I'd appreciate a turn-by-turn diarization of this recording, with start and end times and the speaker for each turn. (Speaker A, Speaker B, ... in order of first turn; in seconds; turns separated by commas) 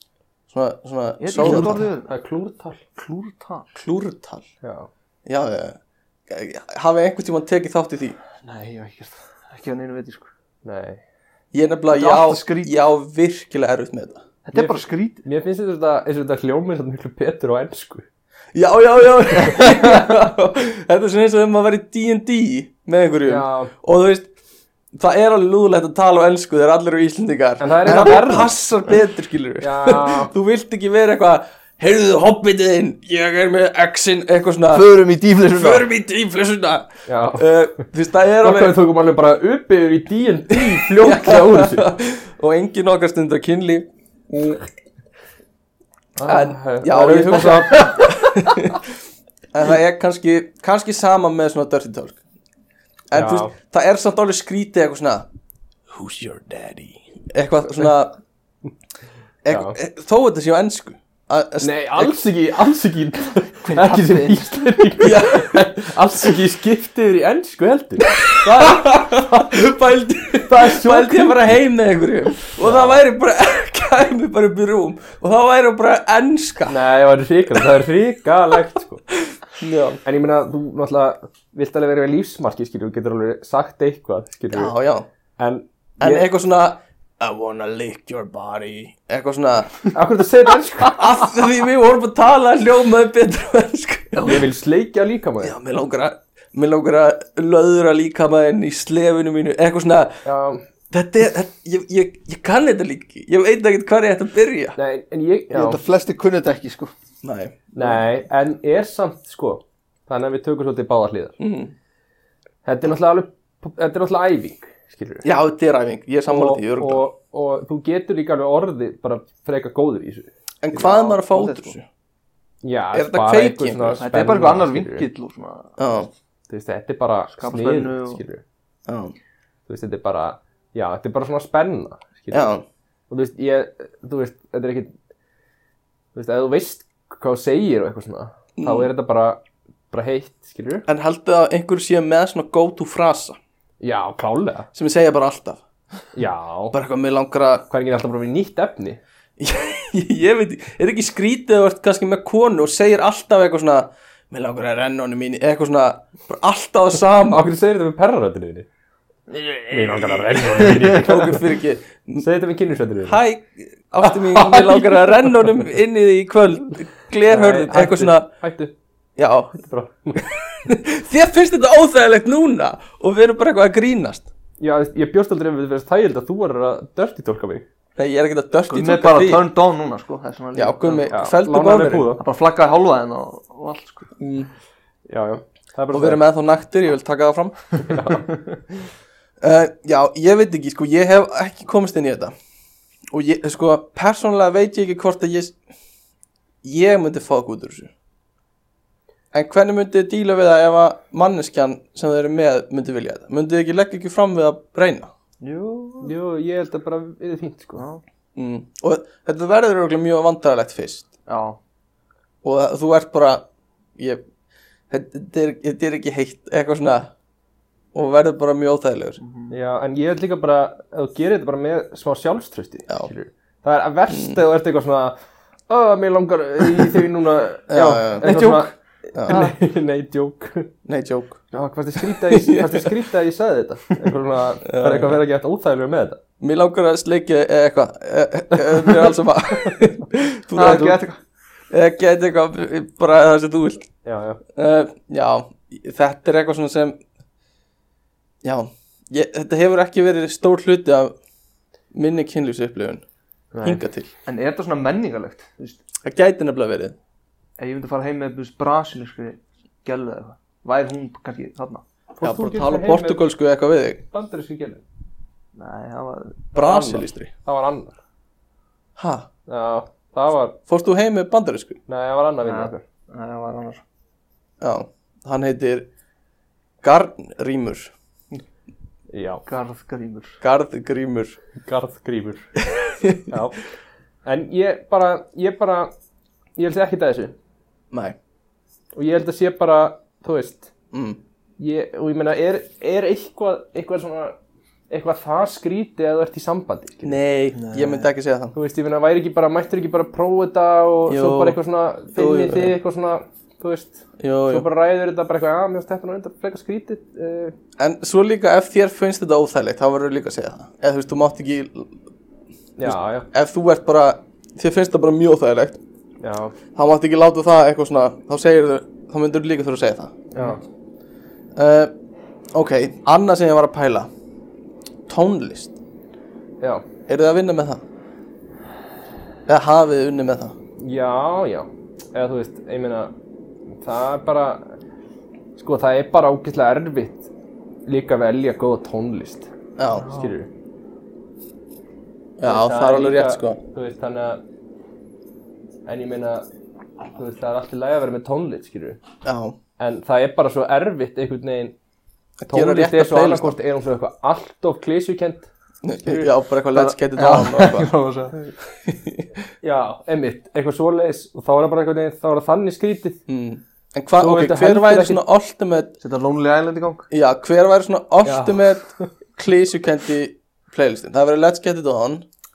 Speaker A: 0.5-1.8, Speaker B: 1.2-2.1, Speaker C: 1.4-2.8, Speaker B: 3.0-3.7, Speaker A: 3.7-4.5, Speaker C: 4.6-4.9, Speaker A: 5.2-8.2, Speaker B: 8.4-10.3, Speaker C: 10.6-11.0, Speaker A: 11.5-14.2, Speaker B: 11.9-12.8, Speaker B: 14.4-15.2, Speaker C: 14.5-18.0, Speaker A: 18.5-24.3, Speaker C: 23.2-23.7, Speaker A: 24.9-34.9, Speaker C: 27.6-28.5, Speaker C: 29.6-30.3, Speaker B: 34.7-35.9, Speaker A: 35.5-38.8, Speaker C: 37.1-37.5, Speaker C: 38.4-41.8, Speaker A: 40.9-44.6, Speaker C: 46.2-48.0, Speaker A: 46.2-48.8, Speaker A: 49.5-52.2, Speaker A: 53.1-55.3, Speaker C: 53.1-53.5, Speaker A: 55.9-58.2, Speaker A: 59.4-62.2, Speaker C: 59.5-59.8, Speaker C: 61.6-69.1, Speaker B: 63.6-64.6, Speaker A: 65.0-65.6, Speaker A: 68.4-76.8, Speaker C: 70.4-71.5, Speaker C: 72.6-73.0, Speaker C: 76.7-79.0, Speaker A: 79.1-80.0, Speaker C: 80.0-84.7, Speaker A: 84.5-85.0, Speaker C: 85.4-86.3, Speaker A: 86.0-89.8, Speaker C: 89.9-91.0, Speaker A: 90.8-94.3, Speaker B: 94.1-94.4, Speaker C: 94.2-95.5, Speaker A: 95.4-100.2, Speaker C: 100.2-100.6, Speaker A: 100.9-104.8, Speaker C: 104.8-105.8, Speaker B: 105.5-106.9, Speaker A: 107.2-108.0, Speaker C: 107.7-111.4, Speaker A: 111.4-111.7, Speaker C: 112.6-115.2, Speaker A: 115.2-117.0, Speaker C: 116.3-120.3, Speaker A: 120.6-121.9, Speaker B: 120.8-121.7, Speaker C: 122.6-125.1, Speaker A: 122.9-124.0, Speaker B: 124.0-126.0, Speaker A: 125.8-126.1, Speaker C: 126.5-128.4, Speaker B: 127.3-128.2, Speaker A: 128.9-129.1, Speaker C: 129.7-132.5, Speaker A: 132.3-132.6, Speaker C: 133.1-134.9, Speaker C: 136.1-140.8, Speaker A: 138.6-138.9, Speaker A: 140.9-143.4, Speaker C: 143.8-144.7, Speaker A: 144.7-145.6, Speaker C: 146.1-146.7, Speaker A: 146.7-147.7, Speaker C: 147.7-149.0, Speaker A: 149.4-157.4, Speaker C: 157.2-158.7, Speaker C: 159.7-161.4, Speaker A: 160.7-162.2, Speaker C: 162.2-163.2, Speaker A: 163.0-168.3, Speaker C: 164.0-165.5, Speaker C: 167.3-168.7, Speaker A: 169.2-169.5, Speaker C: 169.5-170.3, Speaker A: 170.2-174.3, Speaker C: 174.6-177.7, Speaker A: 178.0-179.4, Speaker B: 178.7-181.1, Speaker A: 180.5-182.1, Speaker C: 181.1-182.2, Speaker B: 182.2-184.1, Speaker A: 184.2-184.5, Speaker C: 185.1-186.2, Speaker A: 185.9-187.9, Speaker C: 187.8-188.3, Speaker A: 189.4-192.3, Speaker A: 193.1-195.6, Speaker A: 196.6-197.9, Speaker A: 199.3-205.1, Speaker B: 205.4-206.1, Speaker C: 206.0-207.8, Speaker B: 207.8-208.0, Speaker A: 208.3-211.1, Speaker B: 211.3-211.6, Speaker A: 212.4-213.4, Speaker A: 214.0-214.2, Speaker A: 214.9-217.1, Speaker A: 217.9-219.2, Speaker B: 219.2-219.5, Speaker C: 219.5-225.2, Speaker A: 224.1-224.4, Speaker C: 225.7-230.7, Speaker A: 227.7-228.4, Speaker B: 228.2-228.7, Speaker A: 229.1-229.4, Speaker B: 229.3-229.5, Speaker A: 230.8-231.4, Speaker C: 231.5-236.2, Speaker A: 232.3-232.9, Speaker A: 234.6-235.2, Speaker A: 236.4-241.0, Speaker B: 240.5-241.2, Speaker A: 241.7-243.9, Speaker C: 244.0-244.4, Speaker A: 244.5-247.0, Speaker A: 248.4-251.1, Speaker A: 251.9-253.0, Speaker B: 253.6-255.8, Speaker A: 253.6-254.1, Speaker A: 256.0-256.9, Speaker B: 257.6-261.8, Speaker C: 262.2-263.2, Speaker A: 262.2-264.0, Speaker C: 264.1-264.8, Speaker B: 265.6-266.5, Speaker A: 266.5-267.3, Speaker C: 266.6-268.0, Speaker A: 269.0-269.3, Speaker C: 269.5-270.6, Speaker A: 270.7-271.8, Speaker C: 271.9-272.8, Speaker B: 272.4-273.8, Speaker A: 274.6-275.9, Speaker A: 276.8-277.9, Speaker C: 279.1-279.4, Speaker B: 279.4-280.4, Speaker A: 280.4-281.4, Speaker C: 281.6-282.5, Speaker A: 282.7-283.2, Speaker C: 283.3-283.6, Speaker C: 284.2-285.9, Speaker C: 286.6-287.3, Speaker A: 287.9-288.2, Speaker C: 288.9-290.7, Speaker A: 290.9-291.2, Speaker C: 291.6-294.4, Speaker C: 294.9-297.2, Speaker A: 297.0-298.5, Speaker B: 297.5-298.1, Speaker C: 298.5-307.5, Speaker A: 301.1-301.6, Speaker A: 302.1-302.8, Speaker A: 304.2-304.6, Speaker A: 307.8-311.9, Speaker C: 312.8-313.3, Speaker A: 312.8-315.8, Speaker C: 316.2-316.5, Speaker A: 316.7-320.1, Speaker C: 320.3-320.6, Speaker A: 321.6-321.9, Speaker A: 322.5-324.1, Speaker A: 325.1-325.7, Speaker A: 327.1-327.8, Speaker A: 329.5-330.5, Speaker C: 330.8-333.1, Speaker C: 333.8-334.7, Speaker C: 335.6-337.3, Speaker C: 337.9-340.5, Speaker A: 339.8-340.1, Speaker B: 339.9-340.3, Speaker A: 342.4-343.6, Speaker C: 342.4-344.4, Speaker C: 345.9-346.4, Speaker C: 347.1-349.0, Speaker A: 349.2-349.6, Speaker C: 349.8-351.7, Speaker A: 352.4-353.6, Speaker C: 352.5-355.5, Speaker A: 355.8-357.9, Speaker C: 356.0-356.3, Speaker B: 356.7-358.4, Speaker A: 358.9-359.3, Speaker C: 359.6-363.2, Speaker A: 363.3-365.9, Speaker C: 364.2-365.2, Speaker B: 366.0-367.1, Speaker A: 367.1-372.2, Speaker C: 368.2-369.1